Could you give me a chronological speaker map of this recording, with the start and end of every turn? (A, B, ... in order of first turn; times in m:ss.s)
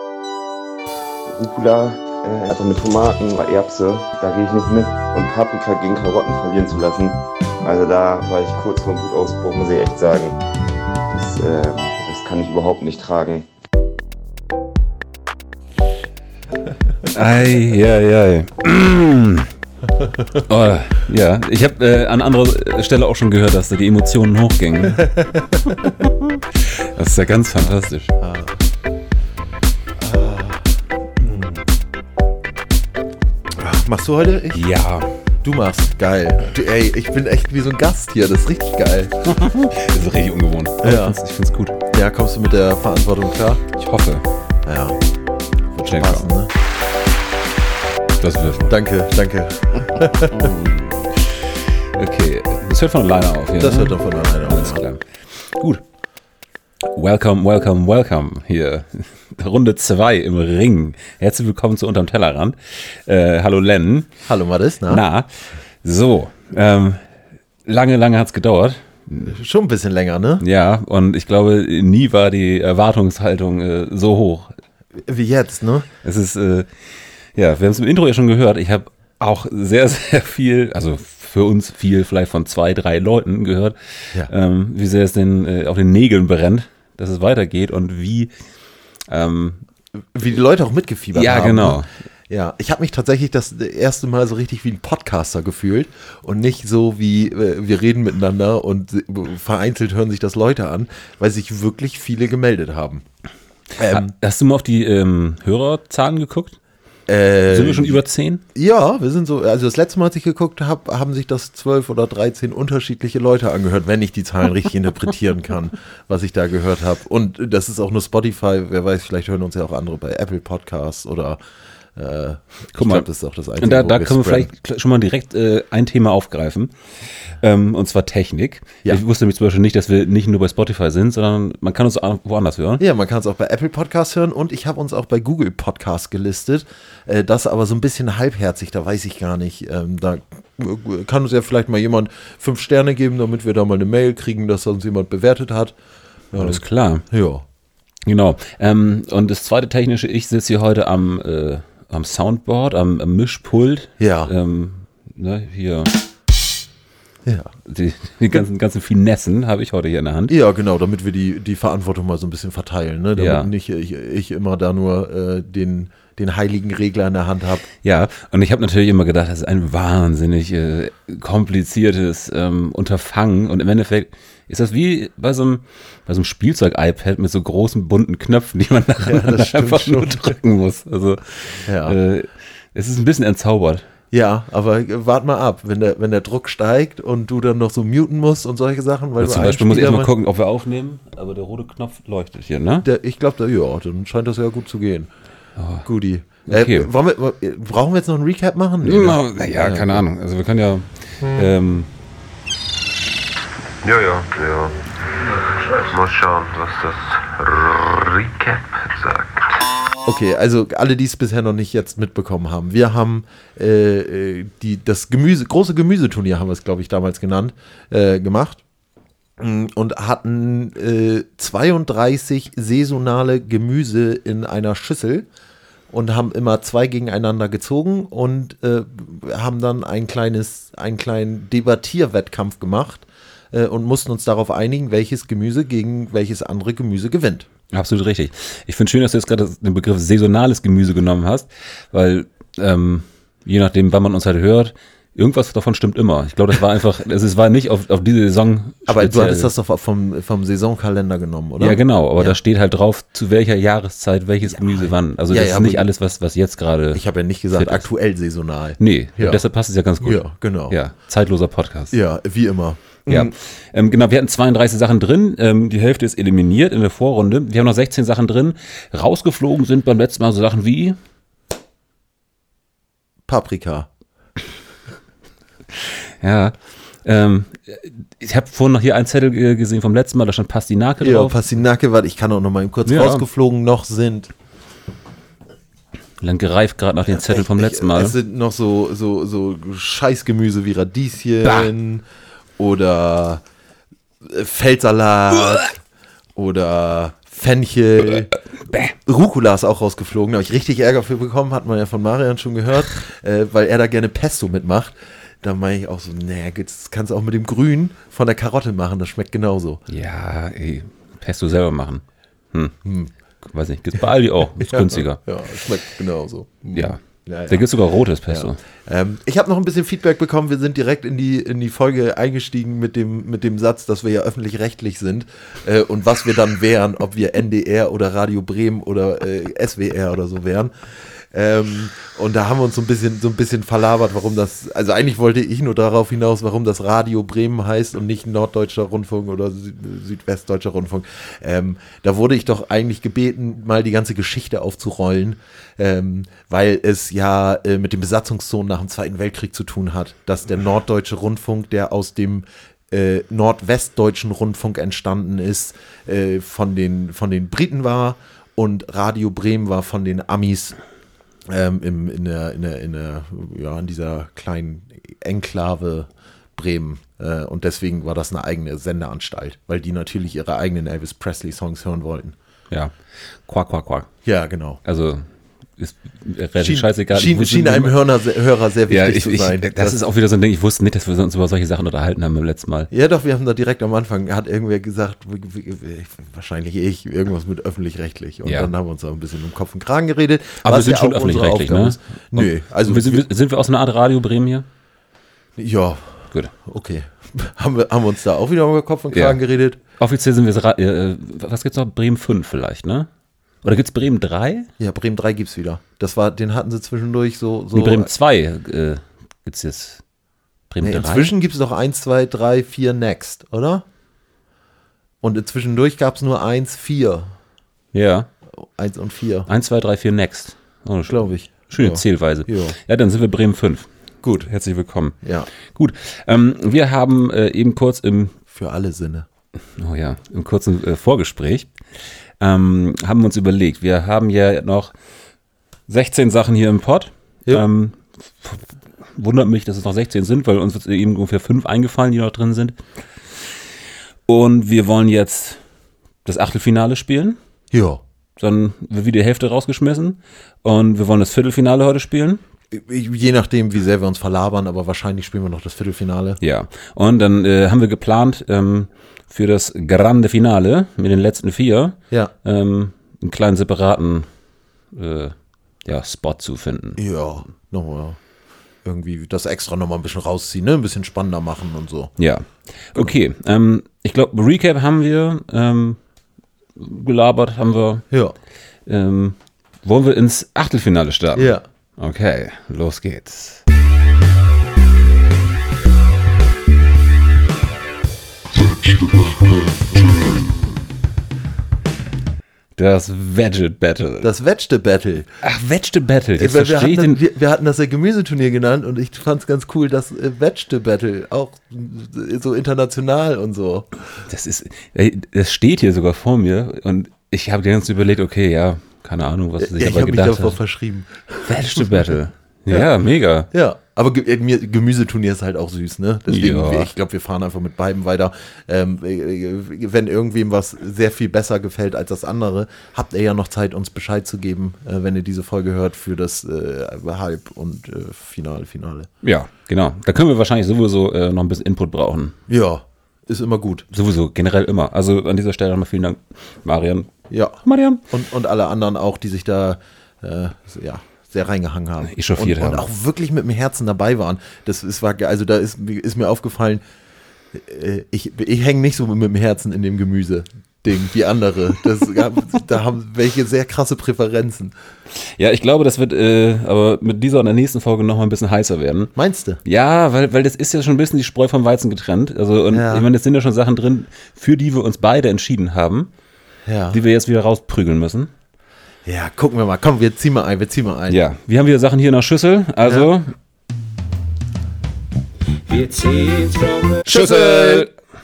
0:01.3-0:10.4 A
0:11.1-0:13.4 A
0:17.1-0:19.5 B
0:20.4-0:25.1 B
0:24.9-0:25.9 C
0:25.8-0:28.1 B
0:28.2-0:28.6 C
0:30.0-0:30.7 C
0:33.6-0:34.6 C
0:34.5-0:35.1 B
0:35.4-0:39.3 C
0:39.2-0:41.8 B
0:40.8-0:41.2 C
0:41.9-0:43.6 C
0:43.7-0:44.2 B
0:44.6-0:45.0 C
0:45.7-0:46.5 C
0:45.8-0:46.3 B
0:48.2-0:48.8 B
0:48.7-0:50.5 C
0:50.3-0:55.8 B
0:53.6-0:54.8 C
0:56.9-1:04.1 B
1:04.3-1:05.0 C
1:04.9-1:05.3 B
1:05.8-1:07.1 B
1:07.6-1:09.4 B
1:09.3-1:10.4 C
1:10.4-1:14.5 B
1:15.0-1:15.9 C
1:16.0-1:16.7 B
1:17.4-1:28.3 B
1:29.1-1:29.6 B
1:30.1-1:43.0 C
1:31.1-1:31.9 B
1:43.8-1:44.1 C
1:43.8-1:46.6 B
1:47.1-1:48.0 C
1:47.5-1:48.4 B
1:48.5-2:01.4 C
2:02.0-2:04.5 C
2:02.8-2:03.1 B
2:03.6-2:06.7 B
2:07.4-2:12.8 B
2:12.8-2:25.8 C
2:26.3-2:27.4 C
2:26.4-2:27.1 B
2:28.1-2:35.9 B
2:34.0-2:34.3 C
2:37.2-2:37.5 C
2:37.7-2:40.4 B
2:40.3-2:47.7 C
2:43.2-2:43.5 B
2:47.8-3:03.8 B
2:59.0-3:00.4 C
3:01.7-3:02.0 C
3:04.1-3:10.1 C
3:09.2-3:12.9 B
3:12.8-3:15.1 C
3:15.6-3:15.9 B
3:15.8-3:20.0 C
3:16.5-3:16.9 B
3:18.8-3:21.9 B
3:23.8-3:29.6 D
3:30.0-3:38.6 C
3:39.4-3:45.3 C
3:45.9-3:57.5 C
3:57.7-4:09.5 B
4:08.9-4:12.4 C
4:11.6-4:17.0 B
4:14.5-4:15.9 C
4:16.9-4:19.4 C
4:17.5-4:17.9 B
4:18.8-4:22.0 B
4:20.0-4:20.8 C
4:21.9-4:23.3 C
4:23.1-4:31.0 B
4:33.3-4:33.9 C
4:36.2-4:41.4 B
4:41.0-4:44.3 C
4:42.9-4:43.2 B
4:46.2-4:48.2 B
4:47.1-4:52.0 C
4:52.6-4:53.4 C
4:54.2-4:55.8 C
4:56.4-4:58.3 C
4:58.7-4:58.9 B
4:58.9-5:09.8 C
5:09.9-5:12.8 B
5:12.8-5:13.1 C
5:13.5-5:15.2 B
5:14.6-5:17.7 C
5:16.7-5:18.6 B
5:18.3-6:00.8 C
6:01.5-6:12.4 C
6:13.5-6:14.1 B
6:14.2-6:14.8 C
6:14.8-6:15.3 B
6:15.8-6:18.0 B
6:16.6-6:20.0 C
6:18.9-6:22.9 B
6:22.9-6:33.3 C
6:28.4-6:28.7 B
6:30.6-6:34.7 B
6:35.6-6:39.8 C
6:39.1-6:39.4 B
6:40.0-6:43.1 B
6:43.6-6:44.7 B
6:44.8-6:48.1 C
6:47.7-6:50.0 B
6:50.7-6:51.3 B
6:50.8-6:53.8 C
6:55.2-6:57.3 C
6:57.9-6:58.3 B
6:58.5-6:59.5 C
6:59.5-7:03.9 B
7:01.1-7:02.8 C
7:04.2-7:04.5 C
7:04.5-7:08.4 B
7:05.2-7:05.5 C
7:08.5-7:09.3 C
7:09.8-7:11.7 B
7:12.4-7:14.9 B
7:15.9-7:22.8 B
7:24.3-7:25.6 B
7:26.2-7:27.4 B
7:27.7-7:28.0 C
7:28.4-7:32.4 B
7:32.7-7:36.4 C
7:36.4-7:44.3 B
7:44.9-7:47.0 B
7:47.0-7:48.2 C
7:48.8-7:52.1 C
7:52.2-7:56.0 B
7:56.8-7:58.1 B
7:58.1-7:58.4 C
7:58.9-8:03.6 B
8:01.4-8:01.6 C
8:12.8-8:14.3 B
8:14.2-8:15.3 C
8:15.4-8:17.2 B
8:16.4-8:23.9 C
8:24.3-8:30.6 B
8:29.6-8:32.1 C
8:31.4-8:33.5 B
8:33.5-8:49.1 C
8:36.3-8:36.9 B
8:49.2-8:52.4 B
8:52.5-8:53.9 C
8:53.9-8:57.1 B
8:57.3-9:06.8 C
8:57.6-8:58.0 B
9:02.0-9:02.8 B
9:07.5-9:14.7 C
9:15.2-9:19.1 B
9:19.2-9:19.6 C
9:19.6-9:26.1 B
9:22.7-9:23.1 C
9:26.6-9:27.0 C
9:26.9-9:28.3 B
9:29.0-9:31.2 C
9:31.1-9:33.3 B
9:37.0-9:37.9 B
9:37.0-9:37.9 C